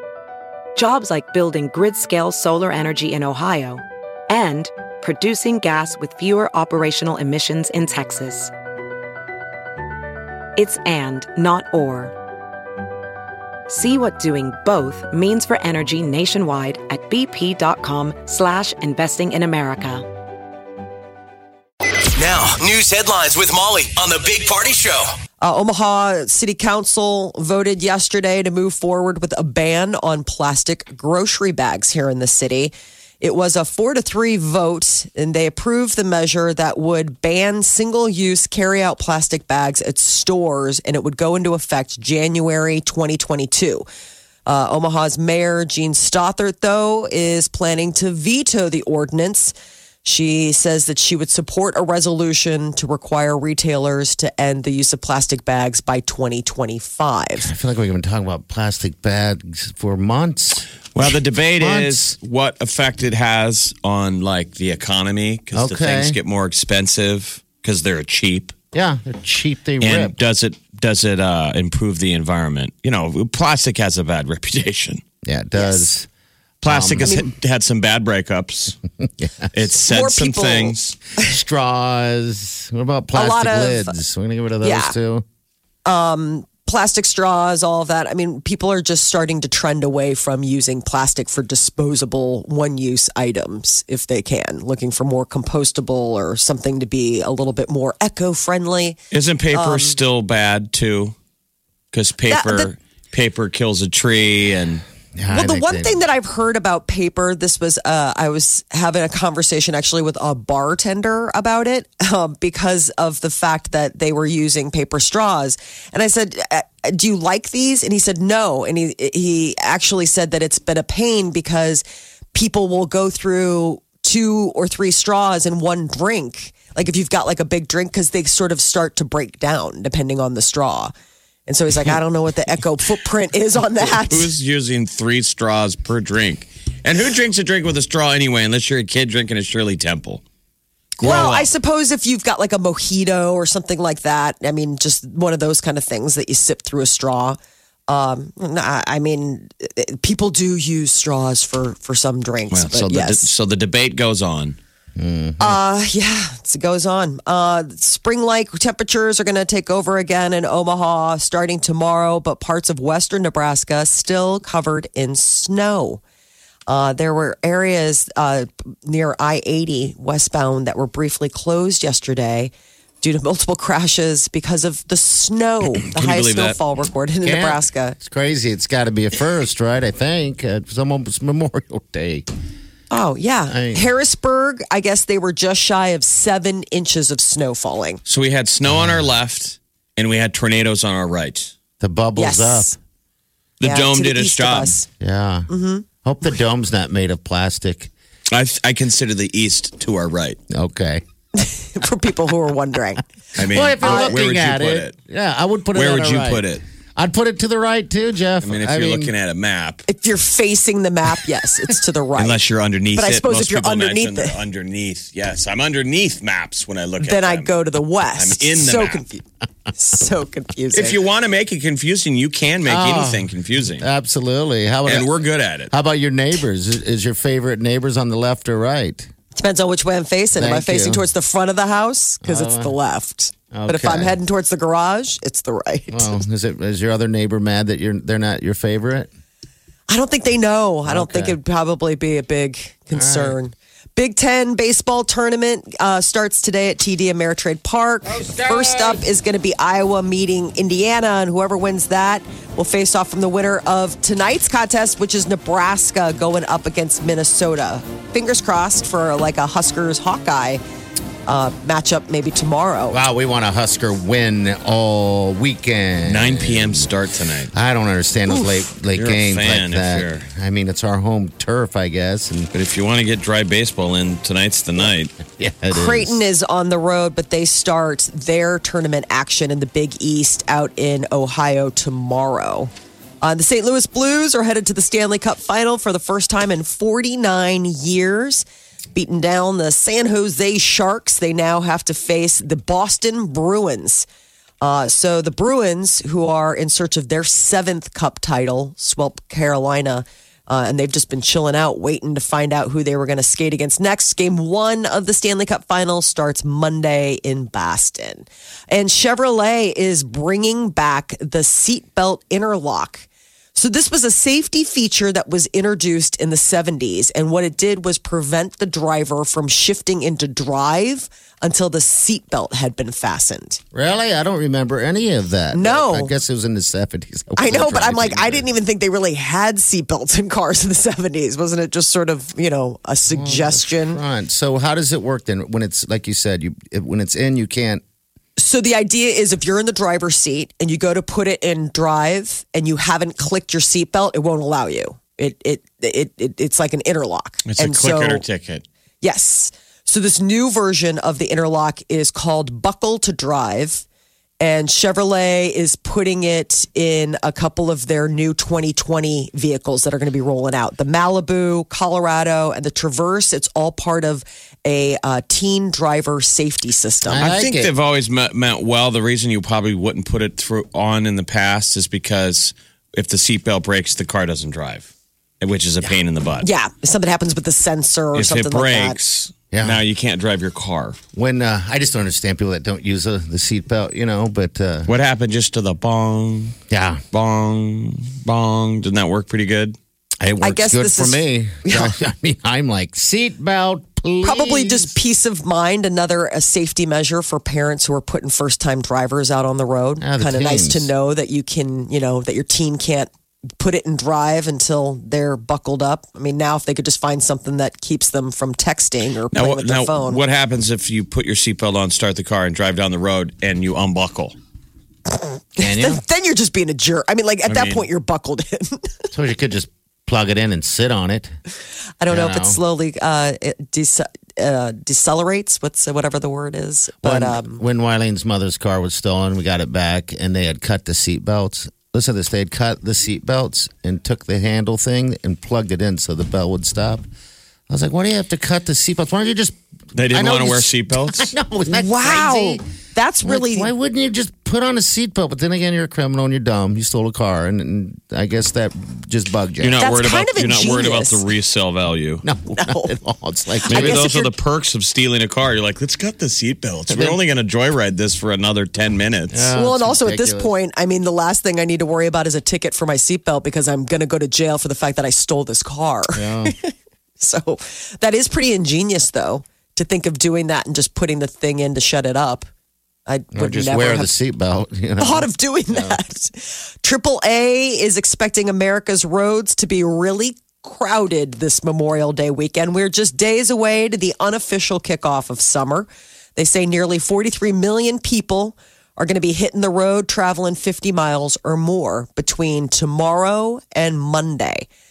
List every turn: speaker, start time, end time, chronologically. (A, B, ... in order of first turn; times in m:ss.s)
0:00.8-0:08.5 A
0:10.6-0:12.1 A
0:13.7-0:20.1 A
0:22.2-0:25.1 B
0:25.4-0:43.8 C
0:44.4-0:49.5 C
0:50.0-0:57.5 C
0:57.4-1:00.7 D
1:00.9-1:08.6 E
1:01.6-1:02.0 D
1:05.5-1:06.2 D
1:08.7-1:10.1 D
1:09.8-1:15.0 E
1:15.2-1:16.1 D
1:15.6-1:15.9 C
1:16.6-1:18.8 E
1:16.6-1:17.2 D
1:17.0-1:17.3 C
1:19.2-1:19.5 D
1:19.5-1:21.0 E
1:19.9-1:20.7 C
1:21.2-1:25.2 D
1:23.1-1:23.9 C
1:24.6-1:25.0 C
1:25.8-1:39.0 C
1:39.1-1:41.1 E
1:39.5-1:40.0 C
1:41.9-1:44.8 E
1:42.3-1:42.7 C
1:45.2-1:45.9 D
1:45.3-2:10.9 C
2:11.5-2:14.3 C
2:13.7-2:20.2 E
2:21.0-2:21.5 E
2:21.0-2:33.2 C
2:32.5-2:34.6 E
2:35.0-2:35.6 D
2:35.4-2:46.0 C
2:46.7-2:58.0 C
2:55.8-2:56.6 E
2:57.2-3:02.3 D
3:02.9-3:08.0 C
3:03.5-3:03.8 D
3:08.0-3:11.5 E
3:08.6-3:09.1 D
3:11.8-3:12.7 D
3:12.2-3:12.8 C
3:13.6-3:14.8 E
3:13.6-3:14.9 C
3:15.0-3:15.5 D
3:15.5-3:15.8 C
3:16.0-3:17.9 D
3:18.3-3:20.4 E
3:20.5-3:21.0 D
3:21.3-3:23.0 C
3:23.4-3:24.9 E
3:23.4-3:26.4 D
3:23.8-3:24.1 C
3:25.7-3:26.6 E
3:27.0-3:29.1 D
3:28.4-3:29.8 E
3:29.9-3:32.4 C
3:32.2-3:37.5 E
3:33.0-3:34.4 C
3:37.0-3:39.2 C
3:38.1-3:39.0 E
3:39.7-3:41.0 C
3:40.7-3:43.9 E
3:42.6-3:45.1 D
3:44.8-3:45.7 E
3:45.7-3:49.1 D
3:49.3-3:56.2 C
3:50.4-3:51.0 D
3:52.2-3:52.7 D
3:53.5-3:54.2 D
3:55.9-3:59.1 D
3:59.9-4:20.6 C
4:00.8-4:01.4 D
4:02.9-4:03.4 D
4:08.0-4:09.0 D
4:21.3-4:23.0 C
4:22.9-4:26.9 D
4:26.0-4:27.5 E
4:27.5-4:32.5 D
4:28.3-4:28.6 C
4:28.9-4:30.2 E
4:32.5-4:35.2 E
4:35.3-4:36.2 D
4:35.7-4:42.7 C
4:43.2-4:54.0 C
4:54.6-5:23.6 C
5:23.7-5:28.5 D
5:25.5-5:26.1 C
5:27.4-5:34.0 C
5:33.1-5:37.8 D
5:38.4-5:48.2 C
5:47.4-5:48.6 E
5:49.0-5:53.8 C
5:54.4-6:07.3 C
6:07.1-6:07.7 D
6:07.2-6:14.9 E
6:15.4-6:16.5 E
6:16.4-6:19.0 C
6:18.1-6:21.0 E
6:19.5-6:19.8 D
6:21.1-6:24.9 D
6:24.9-6:26.6 E
6:26.7-6:27.0 D
6:27.1-6:29.8 E
6:30.2-6:34.9 D
6:30.4-6:31.9 C
6:34.2-6:50.2 C
6:40.0-6:40.9 D
6:49.3-6:54.3 E
6:55.6-6:58.9 C
6:55.6-6:56.0 D
6:57.5-6:57.8 E
6:59.1-7:01.3 D
7:02.0-7:07.6 C
7:02.1-7:02.6 D
7:07.0-7:17.0 D
7:17.7-7:19.6 D
7:19.9-7:21.3 E
7:20.1-7:22.6 D
7:21.7-7:23.7 C
7:23.2-7:29.8 D
7:29.6-7:32.2 E
7:29.8-7:31.2 C
7:32.2-7:34.0 D
7:32.5-7:33.0 C
7:33.6-7:34.3 C
7:33.7-7:39.5 E
7:36.9-7:37.2 D
7:39.3-7:40.5 D
7:39.6-7:52.5 C
7:46.1-7:46.5 D
7:53.1-7:54.1 C
7:53.3-7:56.0 D
7:55.0-8:14.7 C